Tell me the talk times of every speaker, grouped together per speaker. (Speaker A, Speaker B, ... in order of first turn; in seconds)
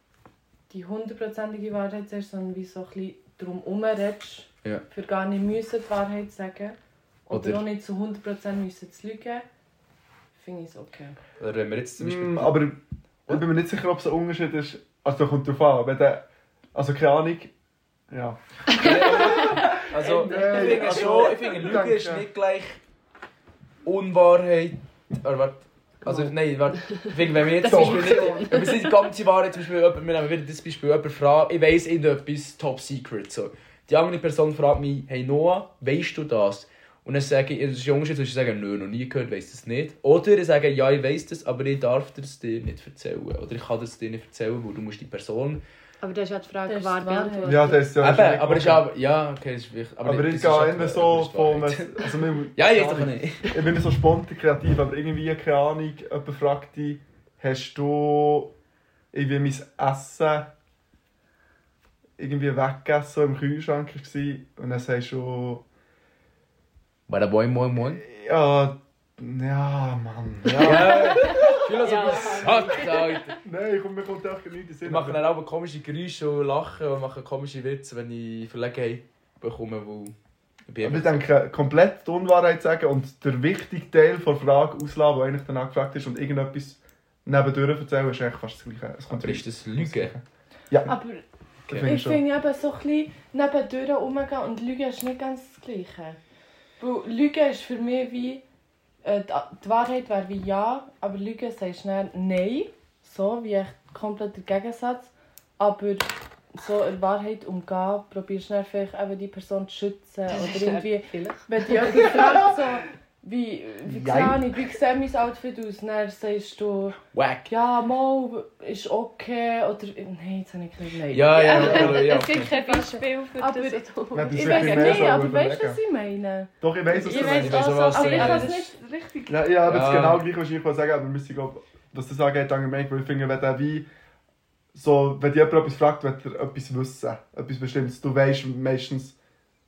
Speaker A: 0.7-9.4, 10.3-11.2, 20.3-20.8, 46.6-47.7, 90.8-96.2, 96.8-98.4, 99.0-129.5
Speaker B: 7.3-7.6, 11.4-12.6, 18.7-22.8, 23.8-45.6, 48.0-53.6, 67.1-68.0, 70.5-73.4, 74.8-80.1, 80.7-81.2, 89.1-90.1, 117.1-117.5, 121.1-122.5, 127.0-128.7, 129.7-130.2
Speaker C: 12.0-17.5, 18.1-18.4, 19.3-22.2, 27.7-28.5, 47.4-48.9, 50.0-58.5, 59.1-60.5, 62.2-65.6, 67.9-71.7, 73.4-75.2, 80.8-91.0, 91.7-92.2, 112.2-112.5, 113.9-114.4, 124.1-125.8, 126.6-127.7, 129.3-133.9, 134.7-139.2
Speaker D: 18.7-20.4, 26.8-28.9, 46.0-47.9, 70.6-73.3, 110.3-112.4, 121.3-125.2, 126.9-128.6